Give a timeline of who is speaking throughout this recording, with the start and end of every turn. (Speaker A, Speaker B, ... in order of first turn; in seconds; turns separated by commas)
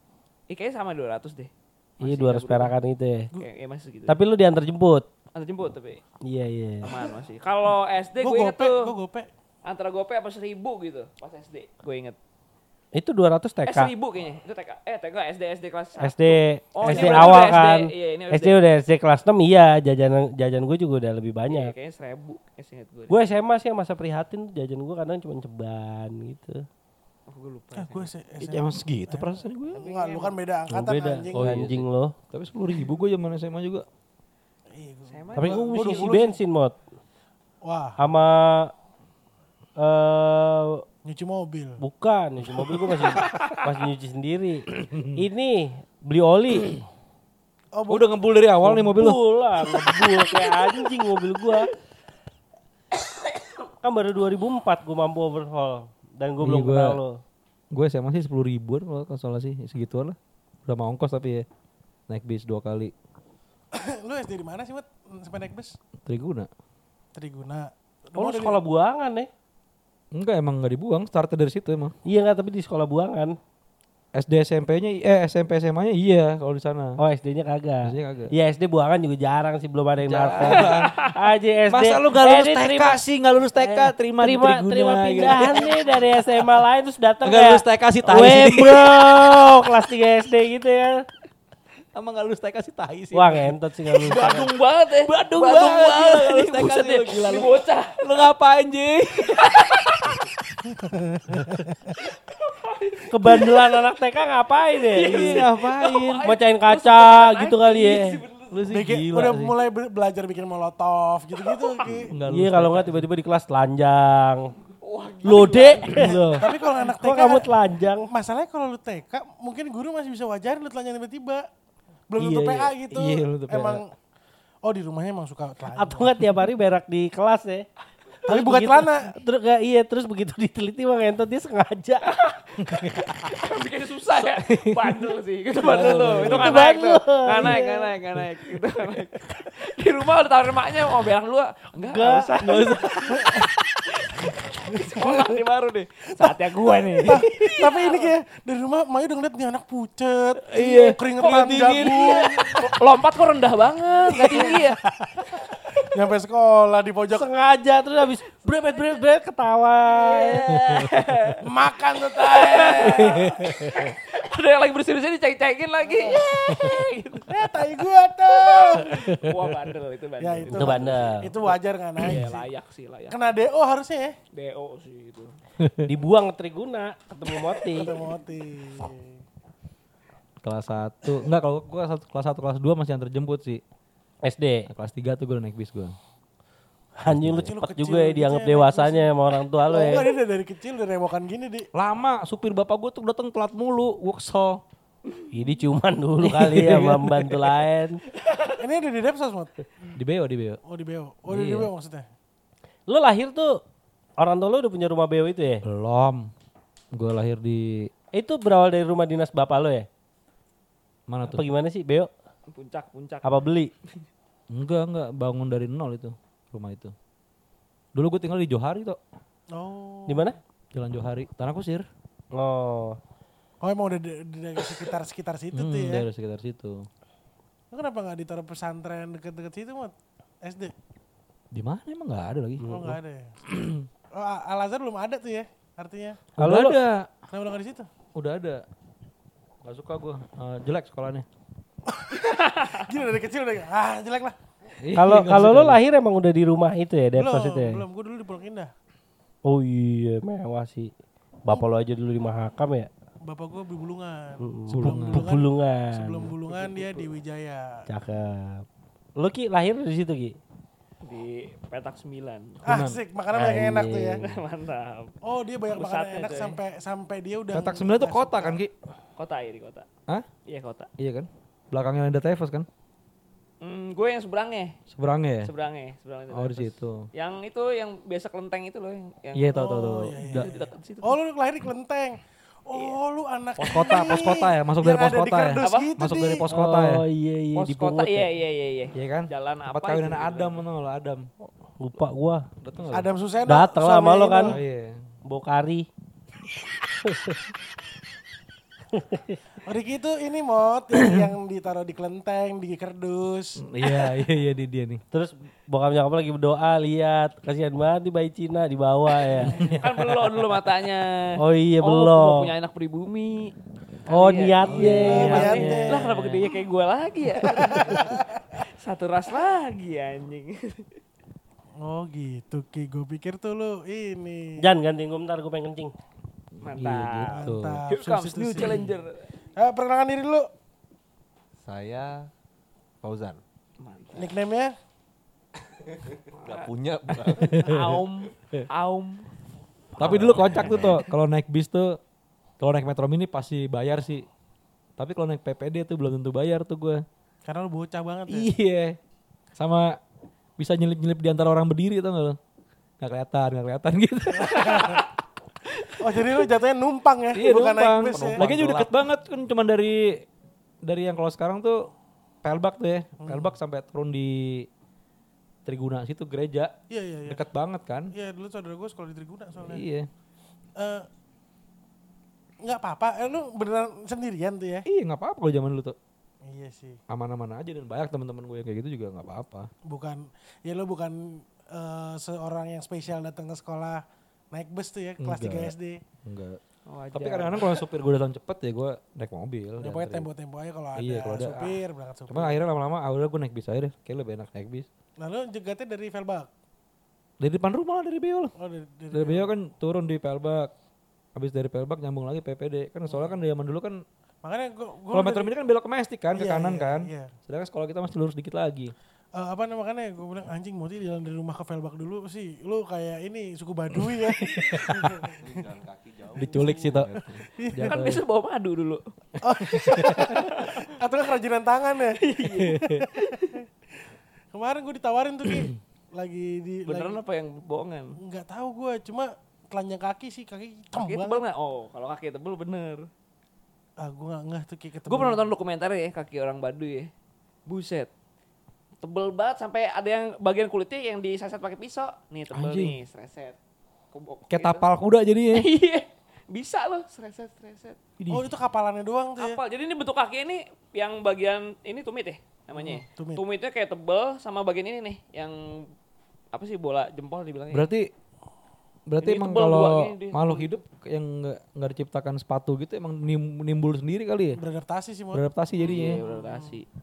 Speaker A: 0.5-2.7, Speaker B: 2.0-3.3, Speaker A: 3.3-4.2, Speaker B: 4.1-5.1, Speaker A: 5.3-6.0, Speaker B: 6.2-6.9, Speaker A: 6.8-8.9, Speaker C: 8.2-9.3, Speaker A: 9.6-12.2, Speaker B: 12.9-13.9, Speaker A: 13.7-18.6, Speaker B: 16.0-21.7, Speaker D: 16.8-17.6, Speaker A: 21.5-23.2, Speaker B: 23.1-26.6, Speaker A: 27.3-28.1, Speaker C: 27.7-31.7, Speaker D: 28.4-29.8, Speaker A: 29.7-30.4, Speaker B: 30.7-32.1, Speaker D: 31.3-33.9, Speaker C: 34.7-36.4, Speaker A: 35.1-36.1, Speaker B: 35.3-36.8, Speaker C: 37.6-38.0, Speaker B: 38.0-38.7, Speaker B: 39.8-40.8, Speaker C: 41.0-41.8, Speaker B: 41.8-46.8, Speaker A: 43.1-43.6, Speaker D: 44.8-45.2, Speaker C: 47.7-48.1, Speaker D: 47.9-49.2, Speaker B: 48.6-51.7, Speaker B: 53.8-57.2, Speaker D: 56.4-57.0, Speaker D: 57.7-61.5, Speaker D: 62.1-62.9, Speaker C: 63.7-65.8, Speaker D: 66.0-66.5, Speaker C: 67.2-68.6, Speaker B: 68.2-69.3, Speaker D: 70.1-71.9, Speaker B: 72.1-73.4, Speaker D: 74.1-77.0, Speaker B: 77.0-83.0, Speaker D: 77.8-78.3, Speaker D: 80.0-81.0, Speaker A: 80.5-81.1, Speaker D: 81.7-85.8, Speaker B: 83.6-91.0, Speaker A: 85.2-85.8, Speaker D: 87.2-89.0, Speaker D: 91.9-93.5, Speaker B: 93.1-94.5, Speaker D: 94.0-99.6, Speaker A: 94.1-98.0, Speaker A: 99.3-100.2, Speaker C: 100.7-102.0, Speaker A: 102.3-103.9, Speaker B: 103.1-105.4, Speaker A: 104.8-108.7, Speaker D: 105.0-106.2, Speaker B: 106.2-108.2, Speaker D: 108.5-109.6, Speaker C: 108.7-112.1, Speaker A: 111.4-112.1, Speaker D: 112.1-113.1, Speaker B: 112.2-114.5, Speaker A: 114.8-116.2, Speaker B: 115.2-118.1, Speaker C: 115.3-117.5, Speaker C: 118.1-121.5, Speaker C: 122.1-123.9, Speaker D: 122.2-123.8, Speaker C: 124.6-126.1, Speaker B: 125.7-127.7, Speaker C: 128.3-129.1, Speaker B: 128.3-132.1, Speaker A: 132.1-143.5, Speaker D: 132.6-133.3, Speaker D: 134.2-136.6, Speaker B: 136.2-137.9, Speaker B: 141.8-142.4, Speaker D: 142.4-143.2, Speaker A: 144.2-148.1, Speaker C: 147.0-152.6, Speaker D: 150.5-152.2, Speaker A: 151.2-154.8, Speaker C: 154.1-154.8, Speaker C: 155.8-157.3, Speaker B: 157.1-160.8, Speaker A: 159.9-161.4, Speaker C: 161.4-163.3, Speaker A: 162.2-167.3, Speaker B: 162.9-163.7, Speaker C: 167.3-169.4, Speaker A: 168.5-173.2, Speaker C: 170.2-172.5, Speaker B: 170.5-171.3, Speaker C: 173.1-174.2, Speaker A: 174.3-175.3, Speaker D: 175.6-175.9, Speaker B: 175.9-177.9, Speaker C: 177.7-179.2, Speaker D: 180.4-183.6, Speaker B: 184.2-184.7, Speaker D: 184.7-186.0, Speaker B: 187.0-190.1, Speaker D: 187.1-187.5, Speaker C: 187.4-189.1, Speaker C: 189.7-191.7, Speaker D: 191.7-194.6, Speaker B: 195.3-198.0, Speaker D: 196.2-197.5, Speaker C: 198.6-199.5, Speaker D: 199.9-200.6, Speaker C: 200.7-202.1, Speaker D: 201.3-201.7, Speaker B: 202.9-203.6, Speaker B: 204.2-205.6, Speaker D: 205.7-206.3, Speaker D: 206.9-207.9, Speaker B: 208.1-209.9, Speaker D: 211.1-211.5, Speaker B: 211.2-212.1, Speaker A: 212.5-213.4, Speaker B: 213.2-213.7, Speaker D: 214.5-216.9, Speaker D: 217.9-219.0, Speaker C: 219.5-220.3, Speaker B: 220.1-220.4, Speaker D: 220.7-221.9, Speaker B: 222.3-223.0, Speaker C: 223.6-226.1, Speaker D: 225.5-226.9, Speaker C: 227.7-230.7, Speaker D: 231.5-233.9, Speaker C: 232.7-233.4, Speaker C: 234.1-236.2, Speaker D: 236.4-237.1, Speaker B: 236.4-236.8, Speaker C: 237.3-237.9, Speaker D: 238.2-238.6, Speaker D: 239.6-241.3, Speaker C: 241.9-244.4, Speaker A: 242.2-242.8, Speaker D: 244.8-245.8, Speaker B: 244.9-247.8, Speaker C: 247.2-248.7, Speaker B: 249.4-250.9, Speaker B: 251.5-252.9, Speaker C: 253.2-257.9, Speaker B: 254.4-256.3, Speaker D: 254.7-255.3, Speaker A: 256.5-257.1, Speaker B: 257.9-258.7, Speaker B: 259.2-260.4, Speaker A: 261.0-262.6, Speaker C: 262.6-264.2, Speaker D: 262.7-263.0, Speaker B: 263.3-264.2, Speaker A: 264.2-265.1, Speaker C: 265.2-268.6, Speaker A: 265.7-266.6, Speaker D: 267.5-268.7, Speaker A: 269.2-269.9, Speaker A: 270.5-270.9, Speaker D: 271.0-272.7, Speaker A: 273.6-274.8, Speaker D: 274.9-275.5, Speaker A: 275.4-281.2, Speaker D: 276.3-277.1, Speaker D: 279.4-280.6, Speaker C: 279.5-286.5, Speaker D: 283.6-287.1, Speaker A: 285.6-285.9, Speaker B: 286.5-288.3, Speaker A: 287.6-290.6, Speaker D: 288.9-291.3, Speaker B: 291.8-292.5, Speaker D: 292.6-293.1, Speaker C: 292.9-294.6, Speaker B: 293.5-294.6, Speaker D: 294.5-295.0, Speaker B: 295.2-295.9, Speaker B: 297.0-297.4, Speaker B: 298.9-299.4, Speaker C: 299.6-303.6, Speaker D: 303.6-305.0, Speaker B: 305.1-309.6, Speaker D: 309.4-310.3, Speaker A: 309.6-313.5, Speaker B: 311.4-312.5, Speaker A: 314.1-320.9, Speaker B: 314.1-315.6, Speaker D: 314.7-316.4, Speaker C: 314.7-316.3, Speaker C: 317.6-318.4, Speaker C: 321.8-324.6, Speaker B: 324.6-325.9, Speaker D: 326.6-327.8, Speaker A: 326.6-329.3, Speaker C: 327.3-328.9, Speaker C: 329.6-330.5, Speaker E: 331.6-332.3, Speaker E: 333.0-333.4, Speaker A: 333.8-334.3, Speaker C: 334.1-334.8, Speaker E: 336.3-337.6, Speaker A: 336.4-336.7, Speaker D: 336.5-338.0, Speaker A: 337.3-339.3, Speaker A: 339.9-341.1, Speaker D: 340.0-342.0, Speaker E: 340.1-341.0, Speaker D: 342.6-344.3, Speaker D: 345.0-347.0, Speaker C: 347.4-348.5, Speaker D: 348.3-349.0, Speaker D: 349.6-350.0, Speaker D: 350.6-352.4, Speaker D: 353.0-355.1, Speaker C: 354.4-355.0, Speaker C: 356.0-358.9, Speaker D: 357.3-360.3, Speaker E: 358.1-358.9, Speaker D: 360.8-361.9, Speaker D: 362.4-364.7, Speaker C: 363.2-363.5, Speaker D: 365.7-366.7, Speaker C: 366.9-367.4, Speaker D: 367.3-368.1, Speaker C: 368.1-369.8, Speaker D: 369.6-370.1, Speaker C: 370.8-371.1, Speaker C: 372.6-374.9, Speaker D: 374.9-376.0, Speaker C: 376.4-377.0, Speaker D: 377.1-379.7, Speaker C: 379.9-386.0, Speaker D: 385.2-385.7, Speaker D: 386.2-386.6, Speaker A: 386.9-387.8, Speaker D: 387.1-390.3, Speaker C: 389.8-392.6, Speaker D: 391.0-391.7, Speaker D: 392.3-394.9, Speaker C: 395.2-396.5, Speaker D: 397.4-398.5, Speaker C: 398.6-399.5, Speaker D: 399.1-400.7, Speaker D: 401.4-404.0, Speaker C: 404.4-405.5, Speaker D: 405.1-408.9, Speaker C: 406.3-407.3, Speaker C: 409.4-415.5, Speaker D: 414.1-415.3, Speaker E: 415.4-417.4, Speaker D: 416.3-418.2, Speaker C: 417.5-418.0, Speaker A: 417.8-419.0, Speaker C: 419.4-423.6, Speaker D: 419.5-420.3, Speaker A: 420.4-420.9, Speaker A: 422.1-423.6, Speaker D: 422.5-423.0, Speaker C: 424.5-427.2, Speaker D: 425.4-425.8, Speaker A: 426.9-428.2, Speaker C: 428.2-431.4, Speaker A: 430.9-433.1, Speaker C: 434.0-435.5, Speaker A: 435.1-437.1, Speaker A: 437.7-438.1, Speaker A: 439.0-443.6, Speaker D: 442.5-443.0, Speaker A: 444.1-444.9, Speaker D: 444.5-445.7, Speaker A: 445.5-448.0, Speaker D: 448.2-448.5, Speaker C: 448.3-449.6, Speaker A: 449.4-455.9, Speaker C: 452.8-453.4, Speaker A: 456.5-457.9, Speaker D: 457.7-458.1, Speaker D: 459.1-464.6, Speaker A: 459.2-460.7, Speaker C: 464.6-466.8, Speaker D: 465.3-466.2, Speaker A: 465.8-466.9